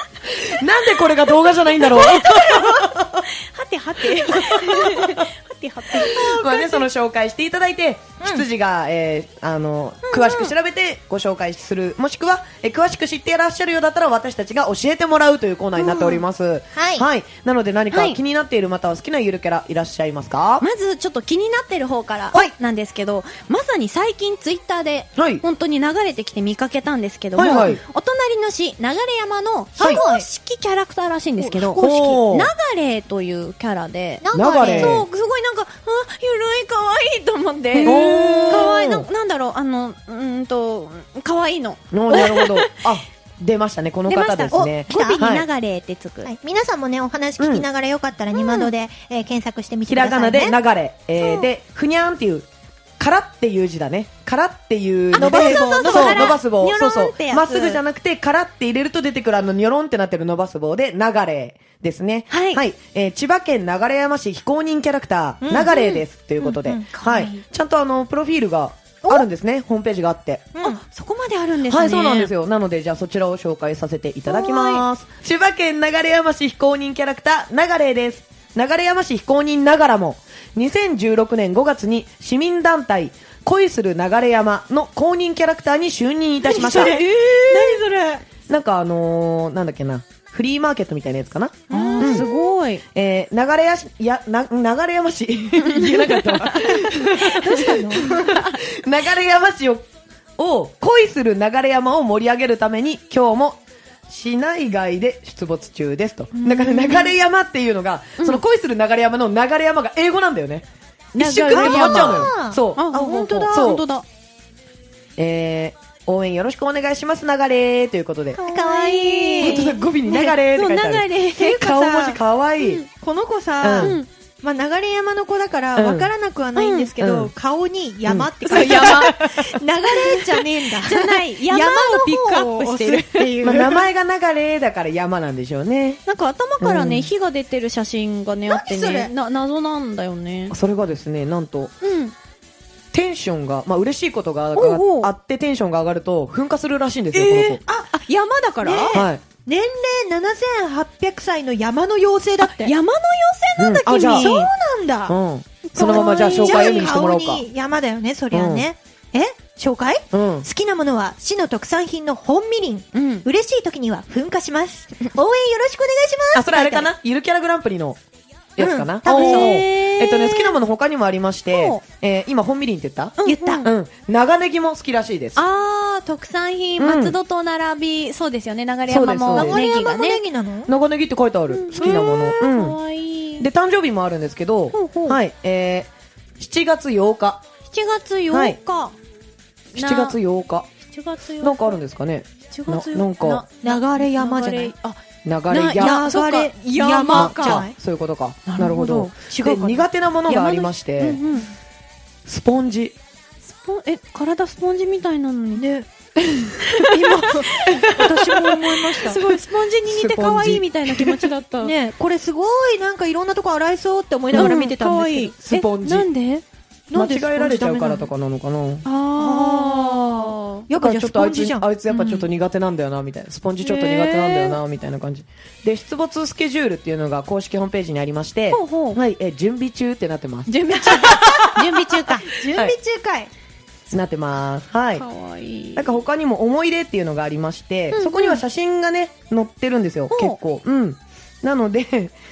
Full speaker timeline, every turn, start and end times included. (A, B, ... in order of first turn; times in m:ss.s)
0:00.2-0:03.3 A
0:02.0-0:02.7 B
0:02.0-0:02.6 C
0:03.3-0:06.8 C
0:04.3-0:05.2 A
0:05.9-0:20.6 A
0:08.2-0:08.4 B
0:10.1-0:10.5 C
0:15.8-0:16.2 B
0:16.7-0:17.0 B
0:17.9-0:18.2 C
0:20.6-0:42.9 C
0:25.2-0:25.4 A
0:27.4-0:27.8 A
0:29.8-0:30.2 B
0:31.4-0:32.1 B
0:31.8-0:32.5 A
0:34.2-0:35.0 B
0:34.3-0:35.0 A
0:37.7-0:38.8 B
0:37.8-0:39.1 A
0:41.9-0:45.4 A
0:44.1-0:46.3 C
0:44.5-0:45.2 B
0:46.2-0:50.5 B
0:47.4-0:47.6 A
0:48.3-0:48.7 C
0:49.8-0:52.5 A
0:53.0-1:10.5 A
0:55.1-0:57.8 C
0:55.1-0:56.4 B
1:02.3-1:02.6 C
1:05.4-1:06.9 B
1:05.7-1:06.0 C
1:07.0-1:07.4 C
1:10.6-1:10.8 B
1:10.6-1:12.3 C
1:11.7-1:27.0 A
1:14.3-1:14.8 B
1:26.5-1:28.2 C
1:26.5-1:28.2 B
1:28.5-1:32.2 A
1:31.7-1:32.3 B
1:31.7-1:32.8 C
1:32.9-1:39.8 A
1:37.0-1:38.4 B
1:40.4-1:53.8 A
1:46.4-1:47.1 C
1:51.1-1:54.0 C
1:51.5-1:53.5 B
1:55.2-1:58.4 A
1:58.3-2:00.3 B
1:58.4-2:01.6 C
1:59.4-2:02.8 A
2:01.3-2:02.2 B
2:02.6-2:02.9 C
2:02.9-2:13.8 B
2:03.6-2:04.0 A
2:03.8-2:04.1 C
2:05.8-2:06.1 A
2:06.6-2:06.9 C
2:07.0-2:07.3 A
2:08.0-2:09.5 A
2:08.4-2:09.2 C
2:10.8-2:13.3 C
2:13.4-2:16.0 A
2:16.1-2:20.6 C
2:16.6-2:17.1 A
2:18.5-2:19.1 B
2:20.5-2:21.7 A
2:21.8-2:22.1 C
2:22.9-2:27.6 A
2:24.5-2:25.1 C
2:27.1-2:29.0 C
2:28.6-2:32.7 B
2:28.9-2:29.2 A
2:32.4-2:34.5 C
2:33.6-2:34.3 A
2:33.9-2:35.2 B
2:35.1-2:37.4 A
2:35.6-2:37.0 C
2:35.7-2:46.9 B
2:38.3-2:38.7 A
2:40.1-2:40.5 A
2:42.9-2:43.2 C
2:46.3-2:48.0 A
2:48.6-2:55.4 A
2:48.6-2:49.7 B
2:49.1-2:50.5 C
2:51.5-2:51.8 C
2:53.2-2:53.6 C
2:53.2-2:53.7 B
2:55.4-3:00.2 C
2:56.8-2:57.2 A
2:58.9-2:59.6 A
2:59.3-3:00.7 B
3:00.7-3:02.8 A
3:01.5-3:03.4 C
3:03.4-3:07.4 A
3:04.7-3:05.2 C
3:07.7-3:09.0 C
3:08.3-3:08.6 A
3:09.7-3:10.7 A
3:09.8-3:10.2 C
3:10.9-3:11.8 C
3:11.4-3:13.4 A
3:12.5-3:17.6 C
3:13.6-3:14.7 B
3:15.2-3:16.0 A
3:15.8-3:17.7 B
3:17.1-3:21.2 A
3:18.5-3:19.5 C
3:19.3-3:19.8 B
3:20.3-3:21.5 C
3:22.2-3:23.0 A
3:23.5-3:25.6 C
3:25.6-3:25.9 B
3:26.6-3:31.7 C
3:26.8-3:29.2 B
3:29.8-3:31.3 A
3:31.6-3:35.3 B
3:34.3-3:34.6 A
3:34.3-3:36.4 C
3:35.4-3:36.1 A
3:36.9-3:38.1 B
3:36.9-3:38.8 A
3:38.8-3:40.6 C
3:39.1-3:41.7 B
3:40.7-3:51.7 A
3:41.9-3:42.3 C
3:43.6-3:44.6 C
3:48.5-3:49.0 C
3:50.5-3:52.3 C
3:52.2-3:53.3 B
3:52.5-3:52.8 A
3:53.9-3:55.0 A
3:55.0-3:55.9 C
3:55.7-4:02.1 A
3:57.9-3:58.4 C
4:00.1-4:00.4 C